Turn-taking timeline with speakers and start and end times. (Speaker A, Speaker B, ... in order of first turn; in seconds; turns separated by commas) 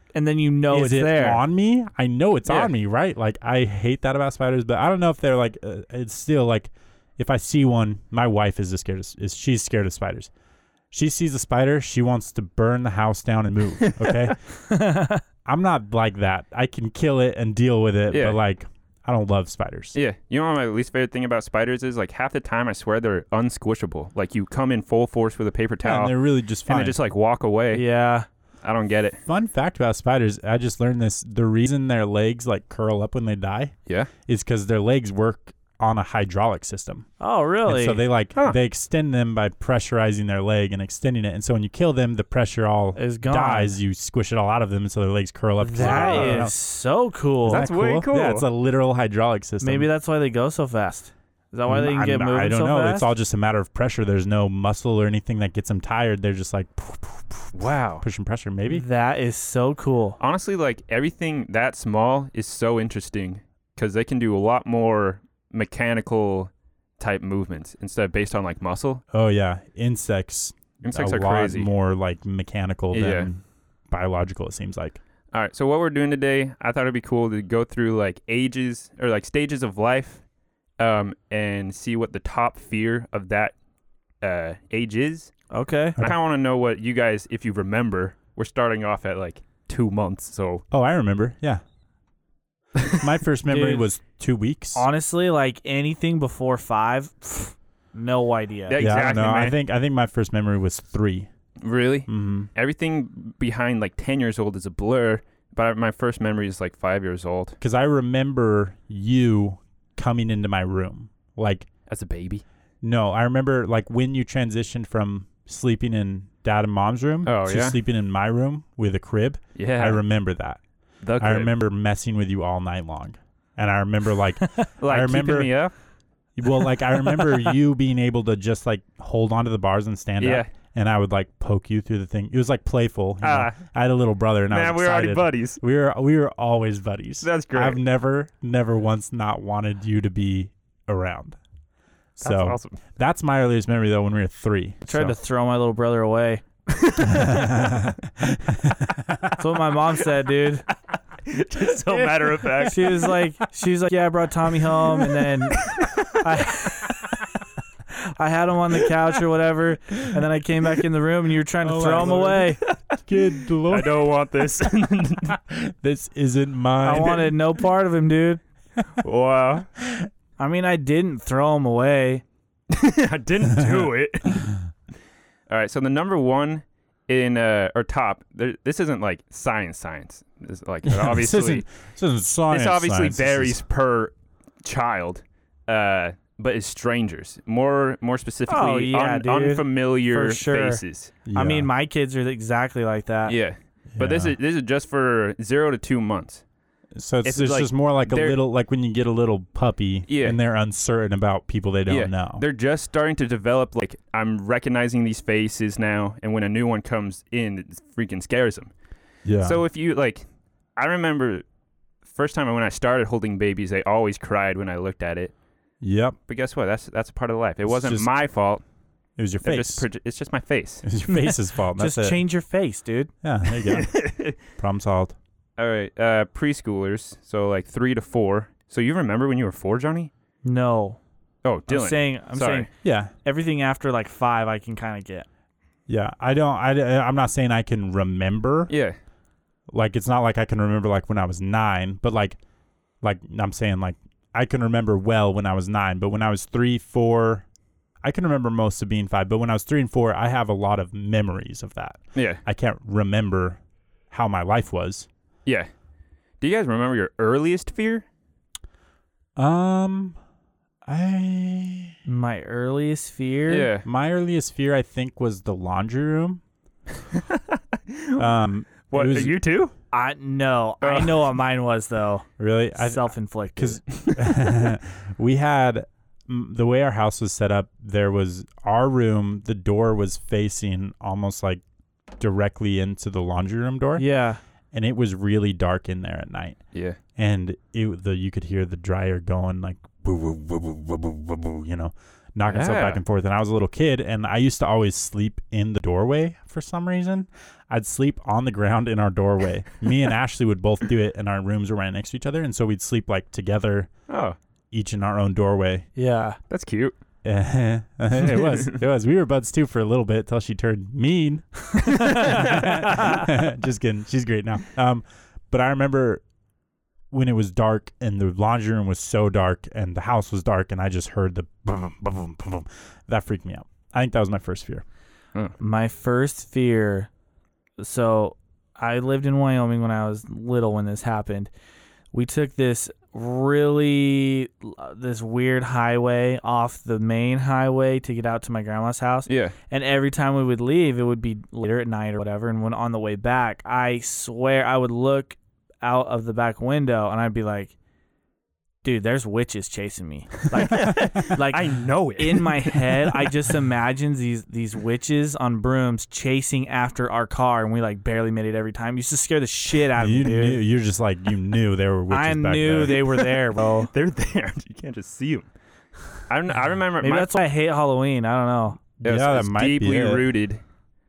Speaker A: 0.1-1.4, Speaker B: 0.7-10.3, Speaker C: 2.5-2.7, Speaker B: 10.9-14.4, Speaker C: 14.0-14.3, Speaker A: 14.7-15.2, Speaker B: 15.4-20.0, Speaker C: 18.1-18.4, Speaker C: 19.9-27.9, Speaker B: 25.8-27.0, Speaker A: 27.7-28.3, Speaker C: 28.6-29.2, Speaker B: 29.3-33.7, Speaker B: 34.3-37.1, Speaker A: 37.2-38.1, Speaker B: 37.6-46.5, Speaker A: 43.0-43.8, Speaker A: 45.6-47.7, Speaker C: 45.8-46.5, Speaker C: 47.5-48.5, Speaker B: 47.5-49.9, Speaker A: 49.6-53.1, Speaker B: 51.7-58.9, Speaker C: 57.5-58.0, Speaker A: 58.7-60.2, Speaker C: 60.2-69.0, Speaker B: 69.1-75.0, Speaker C: 70.8-71.7, Speaker C: 72.9-73.3, Speaker C: 75.3-80.2, Speaker C: 80.8-83.6, Speaker C: 84.2-85.3, Speaker A: 85.5-86.0, Speaker C: 86.0-90.6, Speaker B: 90.7-91.6, Speaker B: 93.0-94.9, Speaker A: 93.5-93.9, Speaker A: 94.8-98.8, Speaker C: 98.7-99.6, Speaker B: 98.8-101.3, Speaker C: 101.6-107.6, Speaker B: 102.1-102.5, Speaker B: 107.6-111.7, Speaker C: 111.9-112.4, Speaker B: 112.8-120.6, Speaker C: 117.2-117.8, Speaker C: 119.6-120.0, Speaker C: 121.0-121.5, Speaker B: 121.2-125.5, Speaker C: 124.8-125.7, Speaker B: 126.4-141.4, Speaker A: 127.2-127.5, Speaker C: 130.2-130.5, Speaker C: 133.2-133.6, Speaker C: 134.5-135.6, Speaker C: 137.2-137.8, Speaker B: 142.2-145.2, Speaker C: 142.2-142.8, Speaker A: 144.8-146.4, Speaker C: 146.8-147.5, Speaker B: 147.1-149.3, Speaker A: 149.4-150.7, Speaker C: 151.3-153.2, Speaker A: 152.6-155.6, Speaker C: 155.5-156.0, Speaker A: 156.2-157.1, Speaker A: 158.2-162.6, Speaker B: 161.6-164.0, Speaker C: 163.7-165.3, Speaker B: 165.3-167.4, Speaker A: 166.8-168.4, Speaker C: 169.0-169.7, Speaker A: 170.4-172.2, Speaker C: 172.7-174.6, Speaker C: 175.5-181.7, Speaker B: 180.8-183.6, Speaker C: 182.5-191.1, Speaker A: 188.5-190.8, Speaker B: 191.2-191.7, Speaker A: 191.3-193.4, Speaker C: 193.3-196.4, Speaker B: 193.9-194.4, Speaker B: 196.9-202.4, Speaker C: 197.2-198.4, Speaker C: 200.1-200.4, Speaker C: 201.9-208.7, Speaker B: 209.2-209.6, Speaker C: 209.4-210.2, Speaker C: 210.8-211.4, Speaker C: 212.1-215.3, Speaker B: 215.8-216.2, Speaker C: 216.3-218.6, Speaker B: 217.6-218.1, Speaker B: 219.2-219.9, Speaker C: 219.4-220.9, Speaker B: 220.8-222.2, Speaker A: 221.1-223.1, Speaker B: 223.2-225.2, Speaker C: 223.6-224.3, Speaker C: 225.6-230.1, Speaker A: 230.4-231.0, Speaker C: 231.4-232.7, Speaker A: 231.7-232.7, Speaker B: 232.8-233.1, Speaker A: 233.2-235.3, Speaker B: 235.9-238.7, Speaker C: 238.7-239.0, Speaker B: 239.7-242.4, Speaker B: 243.0-247.5, Speaker B: 248.0-253.6, Speaker C: 252.2-252.4, Speaker B: 254.1-255.1, Speaker C: 256.4-258.1, Speaker B: 259.4-260.2, Speaker B: 260.9-261.9, Speaker A: 262.1-263.7, Speaker C: 263.5-263.9, Speaker B: 263.9-266.4, Speaker C: 267.9-269.7, Speaker B: 268.2-269.4, Speaker A: 269.9-273.8, Speaker C: 270.8-271.3, Speaker B: 272.4-281.6, Speaker C: 274.0-274.4, Speaker B: 282.2-284.1, Speaker A: 284.0-284.4, Speaker B: 284.7-286.6, Speaker B: 287.2-303.9, Speaker C: 292.5-293.0, Speaker C: 304.1-304.4, Speaker B: 304.7-305.9, Speaker A: 306.0-306.4, Speaker C: 306.5-306.9, Speaker B: 307.2-316.2, Speaker C: 308.2-308.8, Speaker C: 311.9-312.6, Speaker B: 317.1-324.8, Speaker A: 325.6-327.1, Speaker A: 327.8-331.5, Speaker A: 332.1-347.7, Speaker C: 339.3-339.6, Speaker A: 348.8-360.6, Speaker C: 350.7-353.2, Speaker B: 359.9-363.2, Speaker A: 362.1-363.9, Speaker C: 363.7-365.5, Speaker C: 366.3-367.4, Speaker A: 367.0-368.8, Speaker C: 369.0-370.6, Speaker B: 369.0-370.3